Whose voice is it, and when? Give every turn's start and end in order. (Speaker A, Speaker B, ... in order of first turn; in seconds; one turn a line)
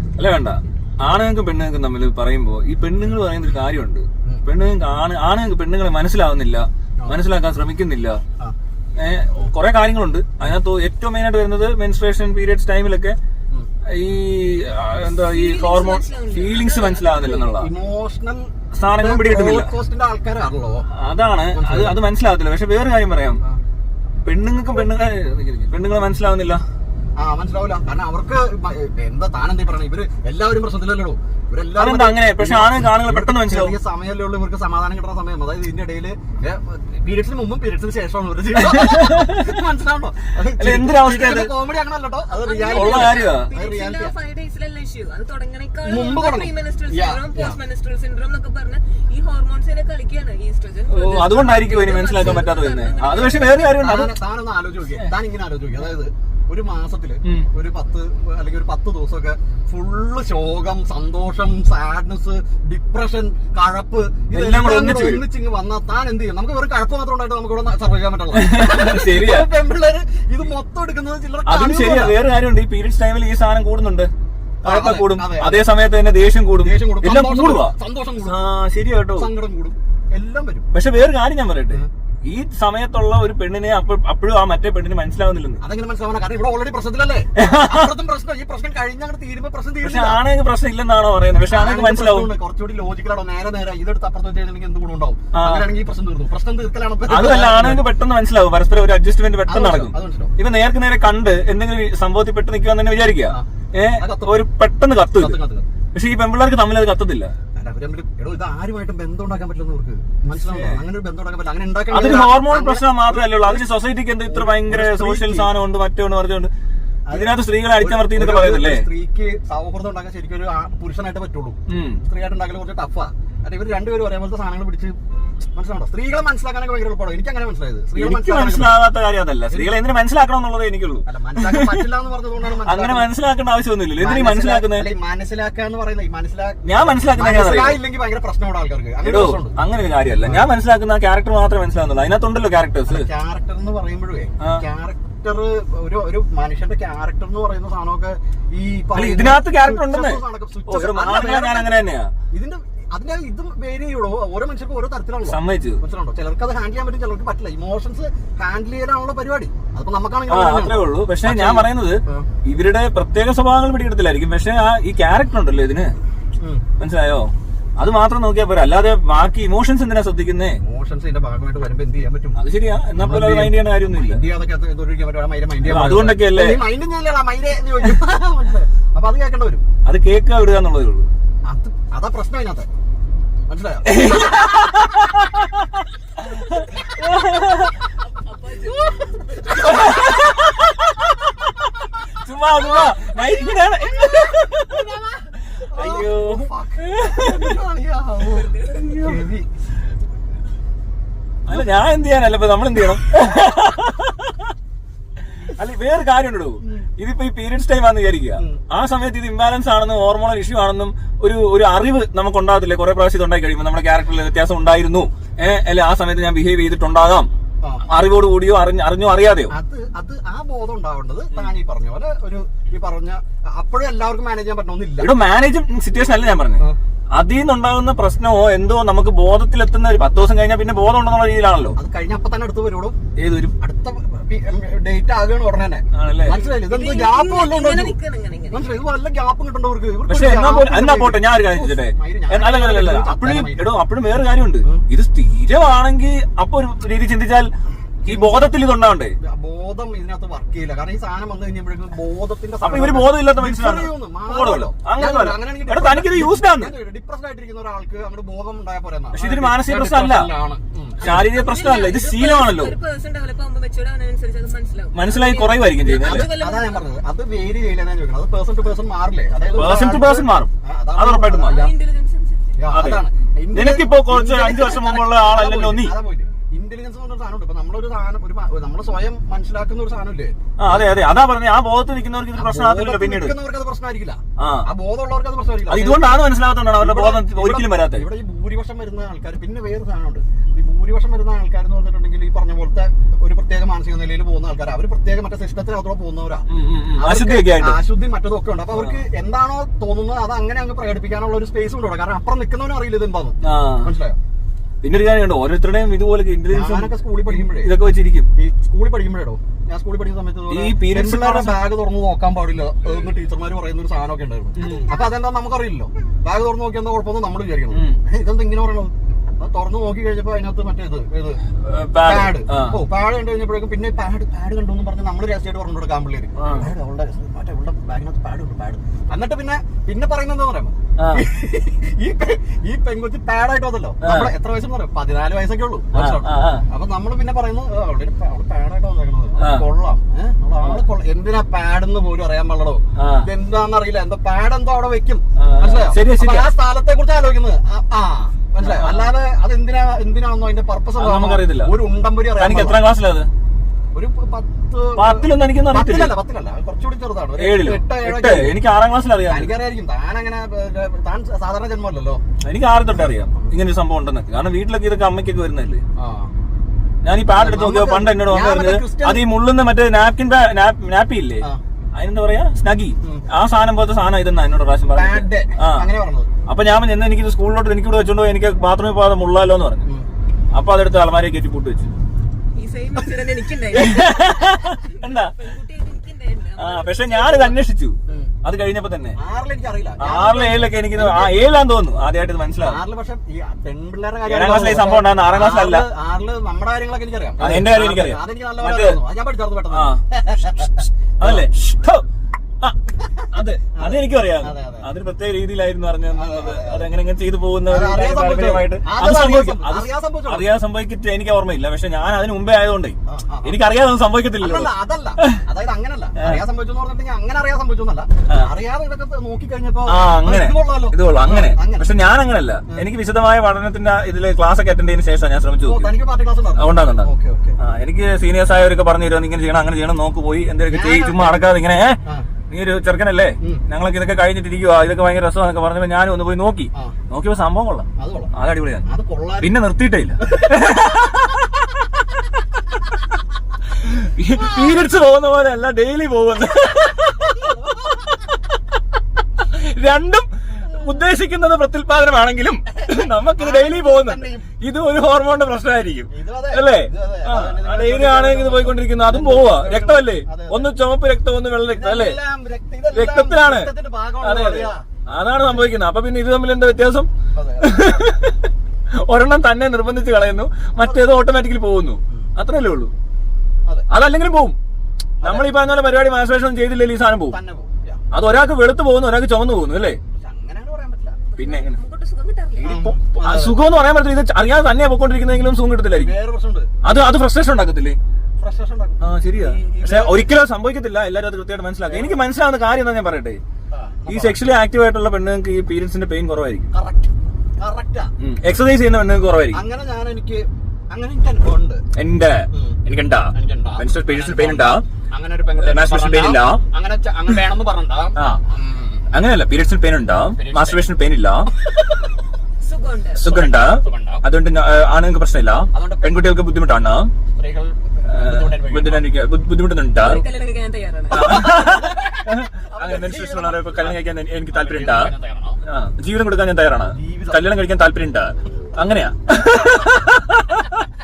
Speaker A: 0.2-8.2
Speaker A: 8.9-13.2
Speaker A: 13.9-17.7
Speaker B: 15.0-17.3
Speaker C: 17.1-20.9
Speaker A: 18.7-19.7
Speaker A: 20.9-23.4
Speaker C: 21.5-22.0
Speaker A: 24.2-26.6
Speaker C: 27.2-44.1
Speaker A: 31.7-33.8
Speaker A: 38.6-39.4
Speaker A: 40.5-41.5
Speaker B: 42.3-53.8
Speaker A: 42.6-43.5
Speaker C: 45.8-47.6
Speaker A: 50.9-54.1
Speaker C: 53.8-72.2
Speaker A: 64.3-65.2
Speaker A: 68.3-69.5
Speaker A: 71.5-74.1
Speaker C: 74.6-75.7
Speaker A: 74.6-79.3
Speaker C: 76.6-78.4
Speaker C: 79.1-80.7
Speaker A: 80.7-85.6
Speaker C: 85.6-90.2
Speaker A: 87.3-87.9
Speaker A: 89.8-92.3
Speaker C: 91.4-97.8
Speaker A: 95.3-95.7
Speaker A: 97.1-105.4
Speaker C: 99.5-100.3
Speaker C: 103.3-104.4
Speaker C: 105.1-105.7
Speaker A: 105.9-107.3
Speaker C: 107.5-113.7
Speaker A: 110.3-110.8
Speaker A: 111.9-116.5
Speaker C: 114.3-115.5
Speaker C: 117.1-125.0
Speaker A: 117.1-118.9
Speaker A: 121.7-122.0
Speaker C: 125.5-128.8
Speaker A: 127.9-131.9
Speaker C: 131.1-133.1
Speaker A: 132.6-134.9
Speaker C: 134.0-139.6
Speaker A: 136.6-137.8
Speaker A: 139.0-143.1
Speaker C: 140.2-140.5
Speaker C: 142.9-151.7
Speaker A: 148.9-152.1
Speaker C: 152.3-162.3
Speaker A: 155.2-155.8
Speaker A: 160.3-165.9
Speaker C: 166.4-166.6
Speaker A: 166.8-170.6
Speaker C: 170.6-172.4
Speaker A: 172.3-174.2
Speaker C: 173.0-179.6
Speaker A: 175.6-176.6
Speaker A: 179.8-181.1
Speaker C: 181.4-182.7
Speaker C: 183.5-184.8
Speaker A: 183.8-185.6
Speaker A: 186.2-187.8
Speaker B: 188.0-190.1
Speaker A: 189.4-197.6
Speaker C: 194.6-199.5
Speaker B: 198.2-198.9
Speaker A: 198.6-199.2
Speaker A: 201.4-204.3
Speaker A: 205.3-217.3
Speaker C: 208.4-208.6
Speaker A: 217.8-219.5
Speaker C: 219.5-225.1
Speaker A: 225.0-231.8
Speaker C: 231.8-233.0
Speaker A: 233.2-233.5
Speaker C: 233.6-238.0
Speaker A: 235.9-236.4
Speaker B: 236.5-238.8
Speaker C: 238.5-243.7
Speaker A: 240.1-247.5
Speaker A: 248.0-249.1
Speaker C: 248.1-248.5
Speaker C: 249.2-261.3
Speaker A: 252.6-256.7
Speaker A: 259.1-260.3
Speaker A: 261.0-262.8
Speaker B: 261.1-266.9
Speaker A: 264.9-266.3
Speaker C: 266.1-271.7
Speaker A: 269.5-271.6
Speaker B: 271.3-272.6
Speaker C: 272.6-280.9
Speaker A: 272.7-275.9
Speaker A: 280.6-283.4
Speaker C: 282.3-304.2
Speaker A: 284.4-284.6
Speaker A: 285.7-288.1
Speaker A: 296.5-297.8
Speaker A: 303.4-303.9
Speaker A: 304.8-308.3
Speaker C: 306.5-307.7
Speaker C: 308.3-321.4
Speaker A: 310.5-311.6
Speaker A: 314.6-314.9
Speaker A: 317.7-318.0
Speaker A: 321.6-322.8
Speaker C: 322.0-352.8
Speaker A: 326.4-326.7
Speaker A: 331.0-331.2
Speaker A: 334.0-334.3
Speaker A: 335.9-336.6
Speaker A: 339.4-339.6
Speaker A: 342.9-343.3
Speaker A: 345.4-346.5
Speaker A: 348.6-349.1
Speaker A: 351.0-351.7
Speaker A: 352.3-353.3
Speaker C: 353.9-358.6
Speaker A: 355.0-356.1
Speaker A: 357.4-359.5
Speaker C: 359.3-362.2
Speaker A: 362.4-365.8
Speaker C: 366.0-366.3
Speaker A: 367.0-375.9
Speaker C: 367.3-369.3
Speaker C: 373.0-373.3
Speaker C: 374.9-376.3
Speaker A: 376.5-379.9
Speaker A: 380.5-381.9
Speaker B: 382.5-387.6
Speaker A: 383.7-385.4
Speaker A: 386.6-389.2
Speaker C: 388.1-388.3
Speaker C: 389.1-391.4
Speaker A: 390.0-392.8
Speaker C: 392.6-401.5
Speaker A: 394.2-395.9
Speaker A: 397.4-399.0
Speaker A: 399.7-400.0
Speaker A: 401.2-402.0
Speaker A: 403.3-415.4
Speaker C: 403.7-404.9
Speaker C: 406.1-406.9
Speaker C: 407.6-410.5
Speaker C: 413.1-413.5
Speaker C: 414.4-421.9
Speaker A: 419.9-425.9
Speaker C: 425.6-427.6
Speaker A: 426.6-438.9
Speaker C: 430.7-431.4
Speaker C: 438.0-438.3
Speaker C: 438.8-439.5
Speaker A: 439.4-441.5
Speaker A: 443.8-448.4
Speaker C: 447.2-447.8
Speaker A: 449.4-462.2
Speaker C: 452.9-454.5
Speaker C: 456.1-460.7
Speaker C: 461.7-465.7
Speaker A: 462.9-467.1
Speaker C: 467.3-468.0
Speaker A: 467.6-468.5
Speaker A: 469.0-472.9
Speaker C: 470.8-471.1
Speaker A: 473.9-474.6
Speaker C: 475.2-475.5
Speaker A: 475.2-477.4
Speaker C: 477.3-478.0
Speaker A: 478.1-480.0
Speaker C: 480.2-481.2
Speaker B: 481.3-482.7
Speaker A: 481.4-481.8
Speaker A: 482.6-486.1
Speaker C: 482.6-483.6
Speaker C: 485.9-487.0
Speaker A: 486.8-488.0
Speaker C: 488.4-490.3
Speaker A: 489.0-493.4
Speaker C: 491.8-492.2
Speaker C: 493.7-494.4
Speaker A: 494.1-496.7
Speaker C: 496.7-498.1
Speaker A: 498.2-499.6
Speaker C: 499.5-501.8
Speaker A: 501.9-504.8
Speaker C: 502.5-502.8
Speaker C: 503.3-509.0
Speaker A: 505.6-506.6
Speaker A: 509.1-511.5
Speaker C: 510.3-510.9
Speaker B: 512.6-513.3
Speaker A: 513.2-517.1
Speaker C: 513.2-514.2
Speaker C: 515.7-516.4
Speaker C: 517.4-519.1
Speaker A: 518.0-520.2
Speaker B: 520.0-521.5
Speaker A: 521.1-525.1
Speaker C: 521.2-525.6
Speaker A: 525.6-530.8
Speaker C: 526.9-527.5